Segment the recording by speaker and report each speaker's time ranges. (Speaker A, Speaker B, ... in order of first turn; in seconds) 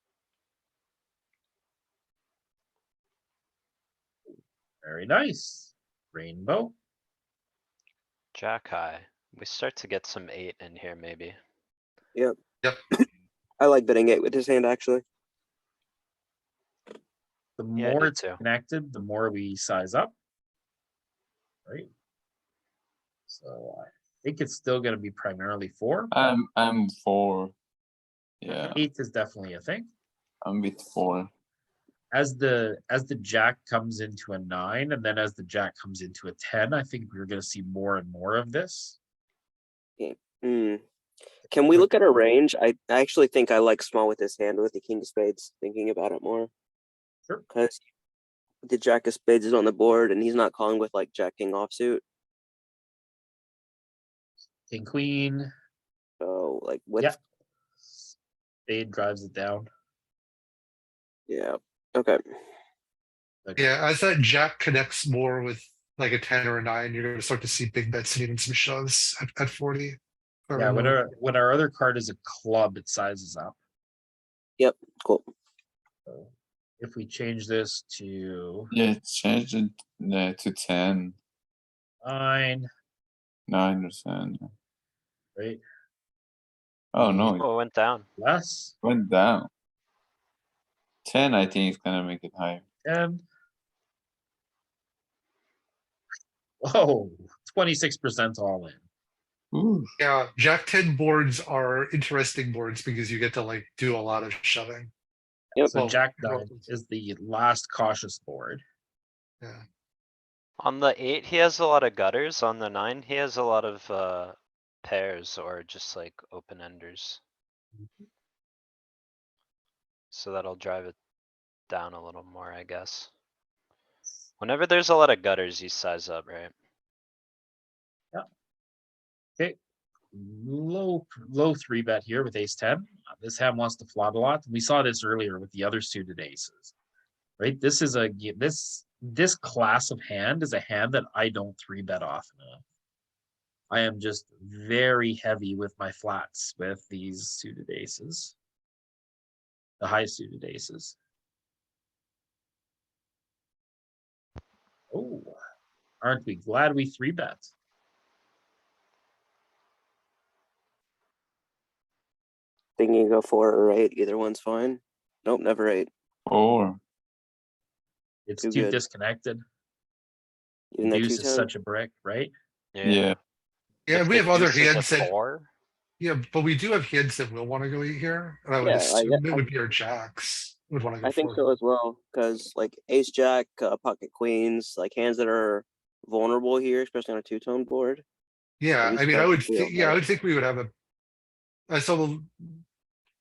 Speaker A: 4.8-6.7, 17.6-20.1, 23.3-26.1, 28.7-29.9, 32.1-39.0, 54.7-55.5, 58.7-59.7, 70.5-73.6, 76.0-78.7, 82.0-82.7, 85.3-85.6, 88.2-88.7, 92.8-93.2, 96.6-98.8, 105.6-108.6, 130.1-136.7, 137.4-142.6, 143.7-148.3, 149.8-150.9, 154.9-155.3, 156.0-157.5, 168.3-169.4, 170.8-172.3
Speaker B: 8.3-11.3, 17.8-18.4, 87.3-88.0, 110.6-117.2, 120.1-120.9, 121.7-123.1, 124.4-126.5, 172.7-173.1, 173.9-175.5
Speaker C: 13.6-15.0, 40.0-40.8, 41.5-46.5, 47.5-47.8, 48.6-52.0, 56.2-57.1, 61.3-62.2, 74.6-75.2, 162.8-165.9, 168.4-168.8, 170.7-171.5, 178.6-179.5, 181.0-188.0, 188.8-190.0
Speaker D: 26.1-27.5, 28.4-28.8, 30.4-31.3, 78.7-81.2, 83.5-84.5, 86.9-87.5, 88.8-89.5, 91.0-92.6, 99.5-99.9, 166.2-166.8, 172.8-173.2
Speaker E: 63.6-71.0, 100.0-104.9, 105.7-106.6, 173.9-175.1, 176.0-181.5, 188.6-190.7, 191.7-192.6